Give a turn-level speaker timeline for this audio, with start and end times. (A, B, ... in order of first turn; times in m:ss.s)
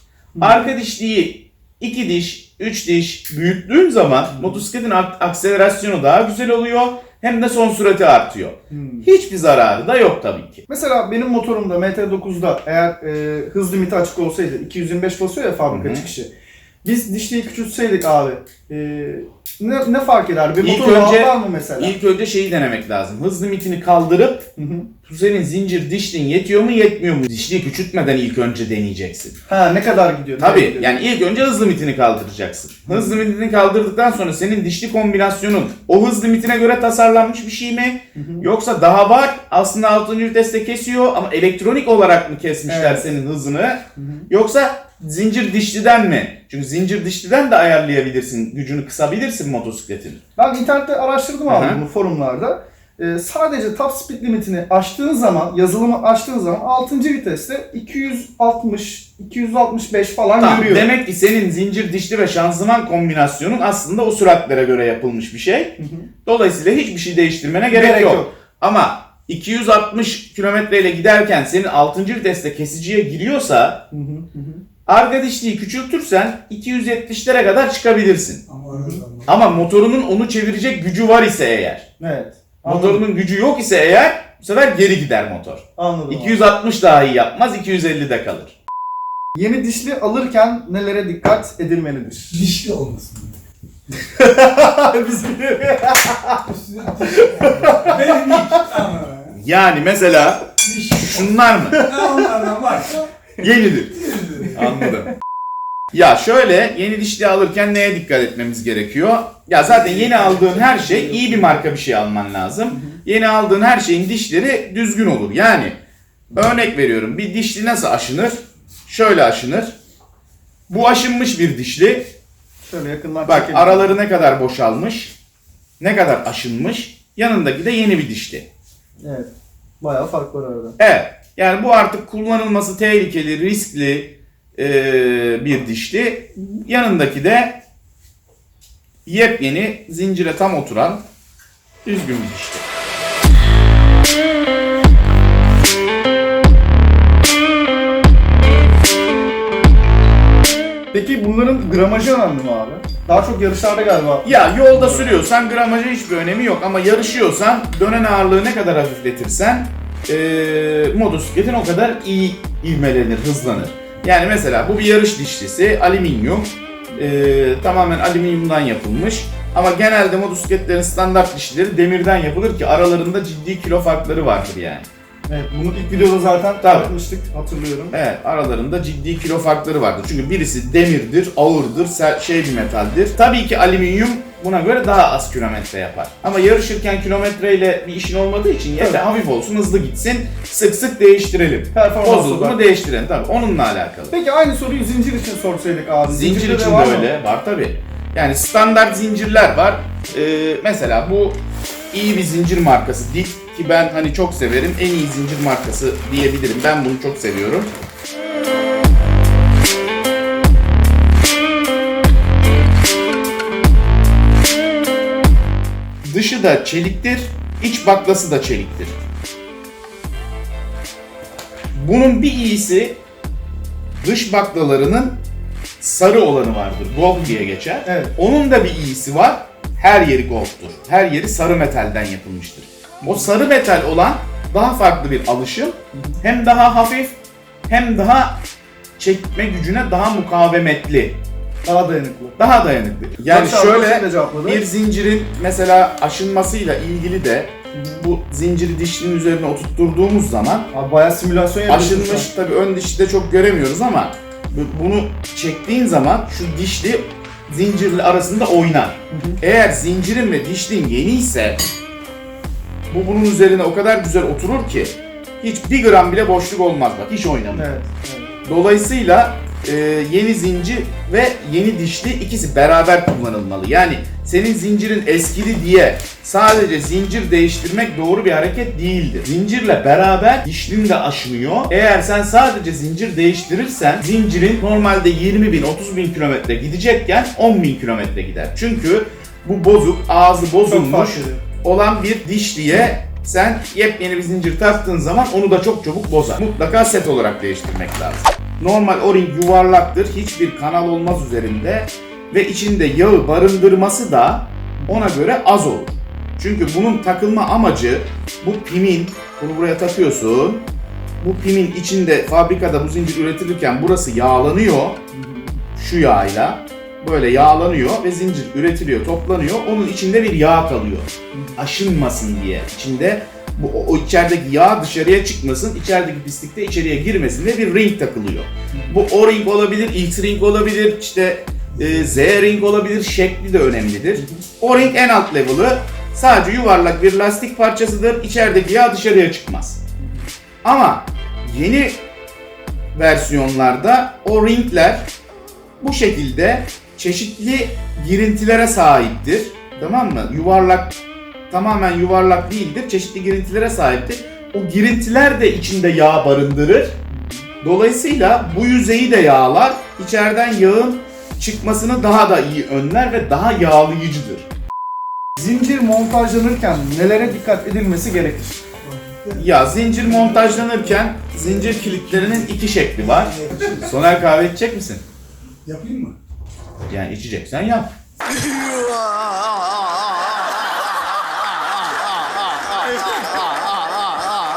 0:00.3-0:00.7 A
0:00.4-0:10.6 B
0:04.3-0:04.6 A
0:08.7-0:09.1 A
0:10.7-0:16.3 A
0:15.7-0:16.0 B
0:16.8-0:21.9 A
0:20.6-0:24.5 B
0:24.6-0:24.9 A
0:25.0-0:29.4 B
0:29.5-0:31.0 A
0:30.4-0:50.2 B
0:32.9-0:33.2 A
0:38.1-0:38.5 A
0:42.7-0:43.0 A
0:44.0-0:44.3 A
0:50.4-1:00.9 A
0:51.5-0:51.8 B
1:00.4-1:13.8 B
1:05.8-1:06.1 A
1:07.7-1:08.3 A
1:13.9-1:14.6 A
1:14.8-1:18.4 B
1:18.5-1:19.3 C
1:18.7-1:19.0 A
1:19.2-1:21.8 B
1:22.0-1:23.0 A
1:22.6-1:28.6 B
1:25.8-1:26.4 A
1:29.3-1:32.3 A
1:32.3-1:33.3 C
1:33.9-1:36.4 A
1:36.4-1:39.4 C
1:37.0-1:38.6 A
1:39.3-1:41.8 B
1:40.6-1:43.0 C
1:41.7-1:42.3 A
1:43.4-1:44.0 B
1:43.9-1:44.6 C
1:44.5-1:45.1 B
1:44.6-1:44.9 A
1:45.9-1:55.8 B
1:49.7-1:51.6 A
1:52.7-1:53.0 A
1:56.3-1:59.7 B
2:00.7-2:02.1 B
2:02.6-2:03.9 A
2:03.2-2:05.1 B
2:05.8-2:08.5 B
2:09.0-2:09.3 A
2:09.8-2:10.8 A
2:10.8-2:17.6 B
2:19.0-2:21.0 B
2:21.8-2:22.6 B
2:30.9-2:35.2 A
2:34.2-2:54.9 B
2:55.3-2:58.0 A
2:56.6-2:56.9 B
2:57.9-3:14.1 B
3:11.7-3:12.6 A
3:14.1-3:17.1 A
3:16.1-3:21.4 B
3:21.9-3:27.7 B
3:36.0-3:39.0 B
3:41.7-3:43.0 B
3:44.0-3:45.2 B
3:45.8-3:57.2 B
3:47.1-3:48.1 A
3:57.7-3:58.4 B
3:59.0-4:01.2 B
4:01.6-4:02.4 A
4:02.4-4:10.7 B
4:03.2-4:04.6 A
4:07.7-4:08.0 A
4:10.7-4:12.3 A
4:11.7-4:21.6 B
4:19.1-4:19.4 A
4:22.9-4:27.7 B
4:27.5-4:28.3 A
4:28.4-5:10.6 B
4:50.6-4:51.4 A
5:04.8-5:05.1 A
5:11.2-5:15.0 B
5:15.1-5:15.6 A
5:15.8-5:39.8 B
5:21.3-5:21.6 A
5:34.2-5:34.4 A
5:40.6-5:42.0 B
5:42.9-5:45.1 B
5:45.8-5:51.0 B
5:51.5-5:57.0 B
5:57.1-5:57.5 A
5:57.6-6:04.5 B
6:05.4-6:08.6 A
6:08.8-6:13.9 C
6:09.4-6:15.0 B
6:15.6-6:16.2 C
6:16.9-6:17.9 B